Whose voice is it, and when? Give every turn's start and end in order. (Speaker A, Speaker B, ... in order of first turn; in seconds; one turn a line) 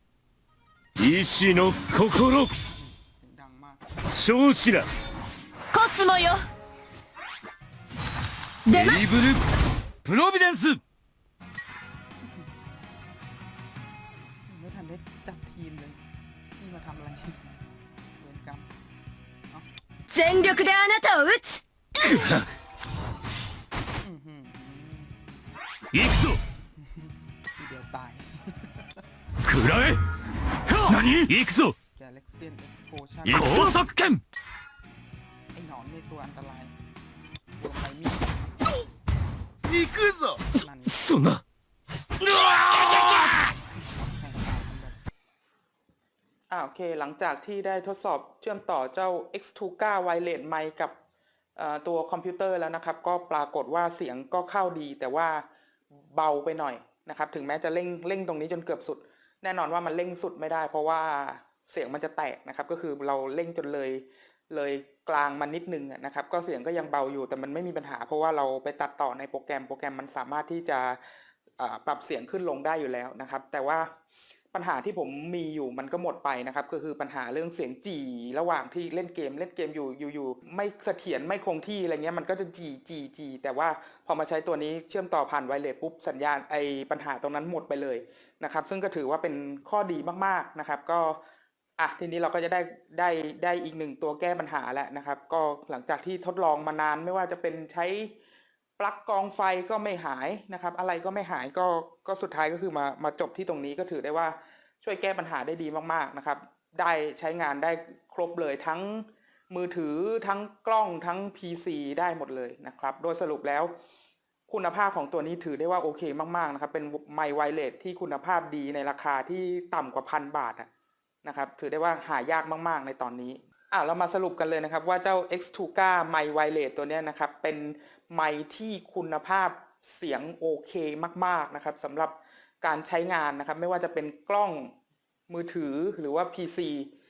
Speaker A: 0.9-2.5
Speaker B: 2.7-3.8
Speaker A: 4.1-4.9
Speaker C: 5.7-6.5
Speaker C: 8.7-9.1
Speaker A: 8.9-9.4
Speaker A: 10.0-10.8
Speaker B: 14.5-16.0
Speaker B: 16.6-17.5
Speaker B: 18.2-18.7
Speaker C: 20.1-22.3
Speaker B: 24.0-25.1
Speaker A: 25.9-26.4
Speaker B: 26.8-28.7
Speaker A: 29.5-30.0
Speaker A: 30.7-31.7
Speaker B: 31.9-33.8
Speaker A: 33.4-34.2
Speaker B: 35.5-36.7
Speaker B: 37.6-38.3
Speaker A: 39.8-40.3
Speaker B: 40.5-41.3
Speaker A: 42.4-43.3
Speaker B: 44.0-45.0
Speaker B: 46.5-50.9
Speaker B: 51.5-55.4
Speaker B: 56.1-71.0
Speaker B: 71.6-73.9
Speaker B: 74.5-91.2
Speaker B: 91.8-98.1
Speaker B: 98.8-113.7
Speaker B: 114.5-120.7
Speaker B: 121.2-134.7
Speaker B: 135.3-136.9